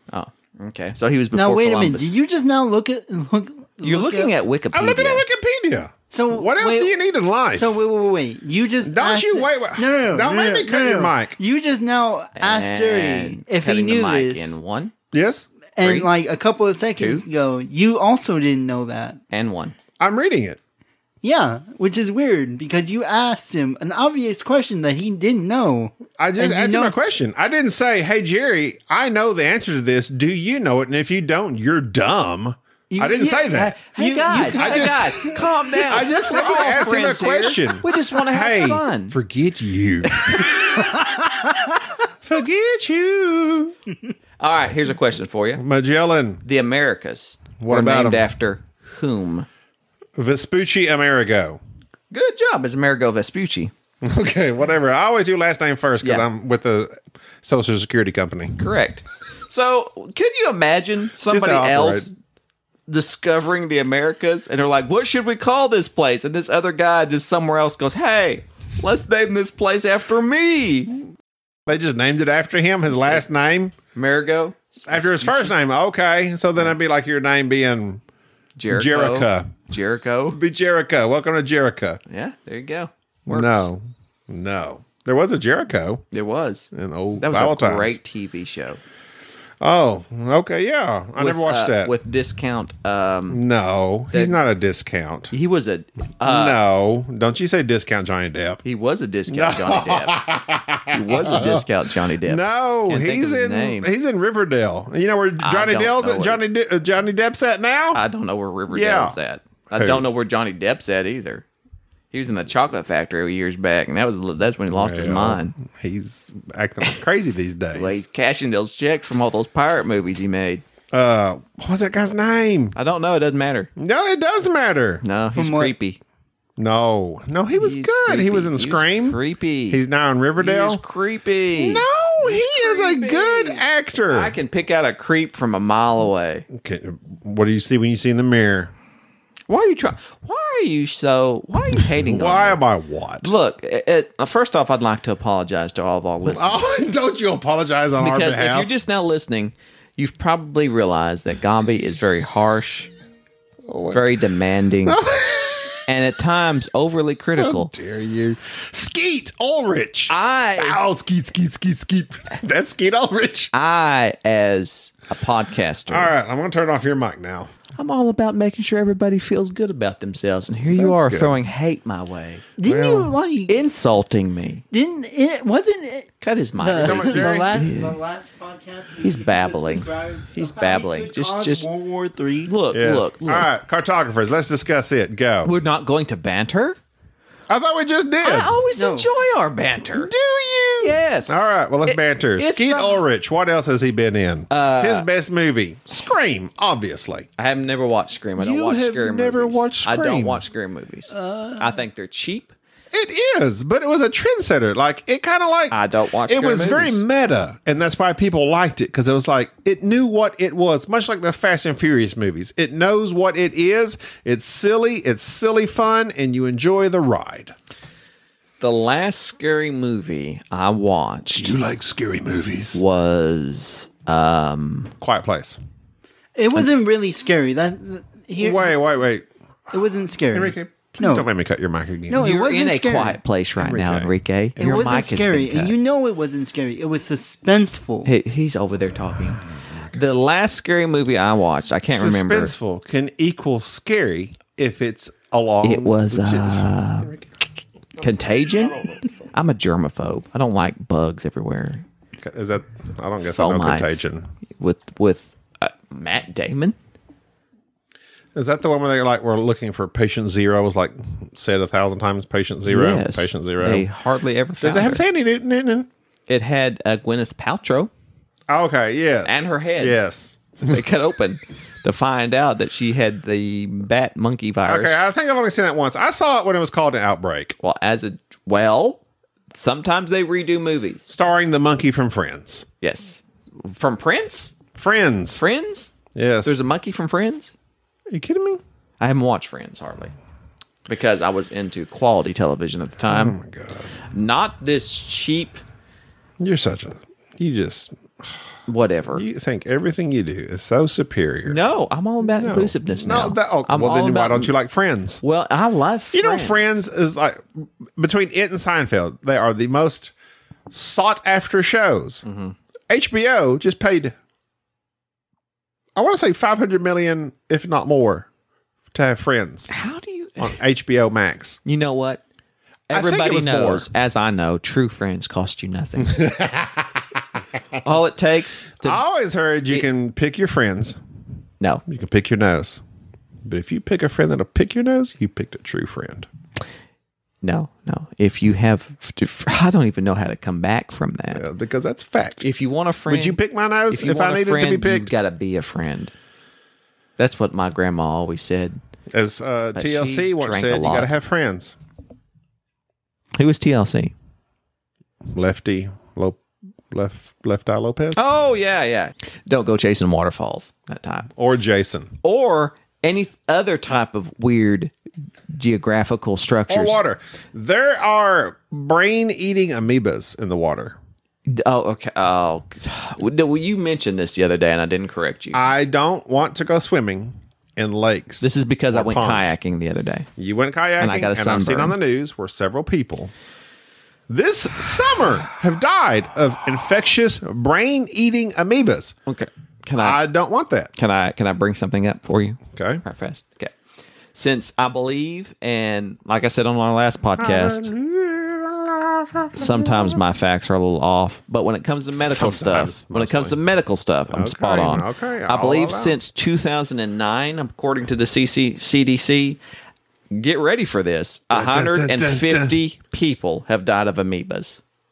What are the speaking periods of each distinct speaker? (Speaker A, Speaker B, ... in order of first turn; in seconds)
Speaker A: 0.1-2.2, 3.8-5.2, 12.4-14.9, 15.8-16.1, 17.0-17.2, 19.3-19.7, 33.9-39.2, 40.1-40.7, 44.4-45.6, 46.4-49.5, 52.1-53.7, 58.6-62.1, 62.9-70.9, 73.9-75.5, 78.6-80.4, 82.1-83.7, 86.1-88.8, 91.2-93.4, 95.3-96.6, 98.6-100.2, 100.9-103.9, 105.4-106.4, 107.9-111.4, 112.1-115.5, 117.7-120.6, 122.7-123.7, 125.0-126.0, 127.6-129.8, 130.4-136.4, 139.5-142.6, 143.2-146.7, 148.0-152.9, 153.9-155.0, 155.9-157.7, 160.1-160.8, 163.5-166.1, 167.8-172.4, 173.5-174.6, 176.2-178.0, 179.0-181.7, 182.4-183.5, 185.4-186.8, 188.2-190.1, 190.8-191.3, 191.8-193.0, 194.5-195.1, 197.4-202.5, 205.7-207.0, 218.6-221.6, 222.7-224.9, 232.2-235.7, 238.0-242.5, 245.6-247.1, 248.0-251.8, 253.3-254.0, 254.6-256.8, 262.6-265.0, 266.3-267.9, 269.2-270.0, 270.6-275.1, 277.6-279.0, 279.5-281.1, 282.8-284.5, 285.4-285.9, 286.4-287.5, 289.0-290.1, 290.9-293.4, 294.1-295.6, 298.7-299.2, 301.4-304.5, 305.2-306.8, 312.2-312.5, 319.7-320.6, 321.6-322.2, 322.9-326.2, 327.8-329.0, 337.4-341.4, 342.4-346.1, 347.2-348.8, 349.7-351.1, 353.4-354.1, 358.1-361.3, 362.2-364.9, 365.5-367.0, 371.5-375.6, 378.4-380.3, 381.0-381.9, 389.2-390.2, 390.9-393.7, 394.3-397.9, 399.5-409.6, 410.3-414.8
Speaker B: 1.3-4.3, 6.1-6.9, 7.5-14.6, 15.8-19.2, 21.2-26.9, 32.9-35.4, 125.3-125.7, 172.6-173.6, 174.7-176.1, 176.6-182.5, 188.7-189.1, 201.1-201.8, 226.3-228.7, 229.7-231.2, 232.1-233.2, 234.6-238.1
Speaker C: 4.7-7.8, 8.8-11.4, 15.1-15.5, 20.0-20.6, 26.2-33.8, 34.5-41.0, 42.2-43.8, 45.5-46.4, 47.6-48.3, 50.2-51.6, 54.0-58.6, 61.2-62.1, 71.7-73.7, 74.9-78.0, 78.7-79.5, 80.3-82.0, 83.3-86.0, 86.7-88.0, 89.6-91.9, 93.3-95.3, 96.2-98.6, 99.3-101.7, 102.2-108.0, 108.7-109.2, 109.8-110.0, 114.7-118.0, 120.9-122.8, 123.8-125.0, 126.6-130.8, 131.5-134.3, 136.5-138.7, 141.8-143.3, 146.2-148.7, 153.7-154.0, 154.8-155.9, 157.4-163.5, 165.9-167.5, 170.7-171.3, 172.6-173.1, 176.8-177.7, 182.7-185.5, 187.5-188.6, 189.9-197.3, 198.4-200.4, 202.9-217.5, 221.3-222.8, 225.0-225.6, 228.4-229.7, 230.3-232.3, 233.6-234.1, 239.6-240.0, 241.9-247.3, 248.0-249.3, 252.2-254.3, 258.3-263.9, 264.6-265.9, 268.5-270.8, 274.6-277.6, 281.1-282.6, 284.7-285.4, 286.1-286.6, 288.1-288.6, 293.1-293.9, 296.4-298.4, 299.1-301.6, 302.3-305.2, 306.1-310.1, 310.7-312.2, 312.9-314.1, 315.9-318.3, 318.9-319.7, 320.4-321.6, 322.9-323.9, 326.0-327.0, 328.8-331.0, 331.9-332.8, 333.4-336.3, 341.3-342.4, 343.1-345.1, 349.1-351.8, 355.3-356.4, 356.9-358.2, 361.3-362.2, 366.7-371.0, 375.5-379.6, 380.4-383.3, 384.3-389.1, 389.9-390.9, 392.7-393.0, 397.4-400.2, 402.2-403.6, 404.3-406.2, 411.5-412.8